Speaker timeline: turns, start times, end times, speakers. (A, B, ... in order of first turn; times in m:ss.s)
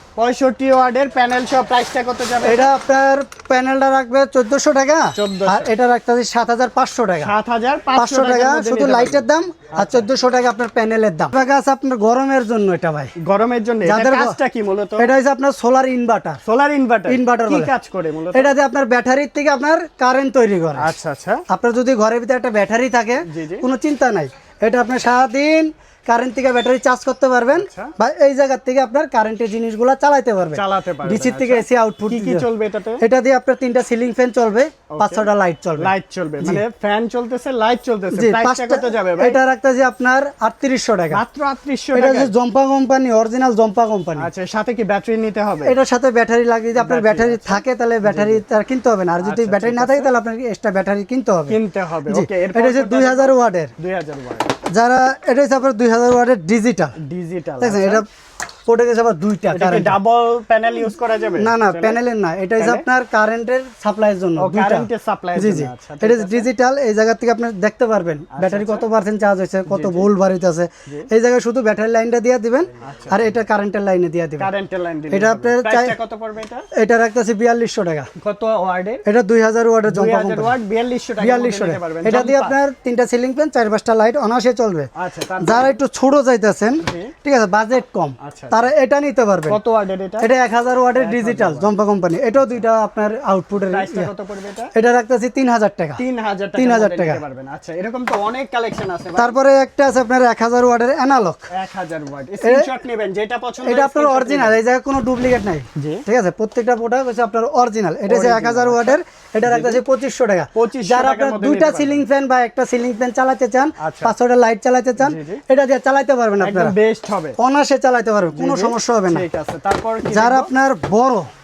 0:00.2-0:02.7 A
0:02.4-0:07.3 B
0:05.2-0:05.7 A
0:07.2-0:09.2 A
0:08.0-0:13.1 B
0:09.8-0:10.1 A
0:13.2-0:15.1 A
0:13.8-0:14.4 B
0:15.0-0:16.4 B
0:16.4-0:18.5 A
0:17.1-0:17.7 B
0:18.3-0:20.9 B
0:20.8-0:21.4 A
0:21.5-0:32.5 B
0:23.2-0:23.7 A
0:27.6-0:27.9 A
0:30.5-0:33.0 A
0:33.0-0:36.6 B
0:34.9-0:39.4 A
0:38.1-0:41.2 B
0:41.1-0:42.3 A
0:41.9-0:44.3 B
0:44.2-0:45.8 A
0:45.6-0:53.7 B
0:46.8-0:48.4 A
0:49.2-0:50.1 A
0:51.5-0:54.5 A
0:54.7-0:57.0 B
0:57.0-0:58.0 A
0:57.6-0:58.1 B
0:58.7-1:00.0 B
0:59.5-1:02.0 A
1:01.4-1:14.5 B
1:02.6-1:02.8 A
1:04.4-1:06.5 A
1:08.3-1:08.9 A
1:09.7-1:10.1 A
1:12.8-1:13.4 A
1:14.4-1:16.7 A
1:15.1-1:16.0 B
1:16.7-1:18.1 B
1:18.2-1:19.0 A
1:19.0-1:20.6 B
1:19.9-1:22.6 A
1:21.2-1:24.9 B
1:25.0-1:25.8 A
1:25.4-1:29.6 B
1:26.8-1:27.1 A
1:28.2-1:28.6 A
1:29.5-1:30.3 A
1:30.2-1:34.1 B
1:31.0-1:31.8 A
1:33.7-1:34.7 A
1:34.8-1:36.0 B
1:36.0-1:39.4 A
1:36.6-1:37.2 B
1:39.2-1:41.5 B
1:41.5-1:44.6 A
1:42.4-1:42.7 B
1:43.6-1:56.8 B
1:45.8-1:46.0 A
1:48.1-1:49.8 A
1:50.5-1:52.0 A
1:53.8-1:54.1 A
1:55.0-1:55.4 A
1:56.4-1:57.4 A
1:57.4-1:59.3 B
1:58.4-2:00.5 A
2:00.1-2:01.3 B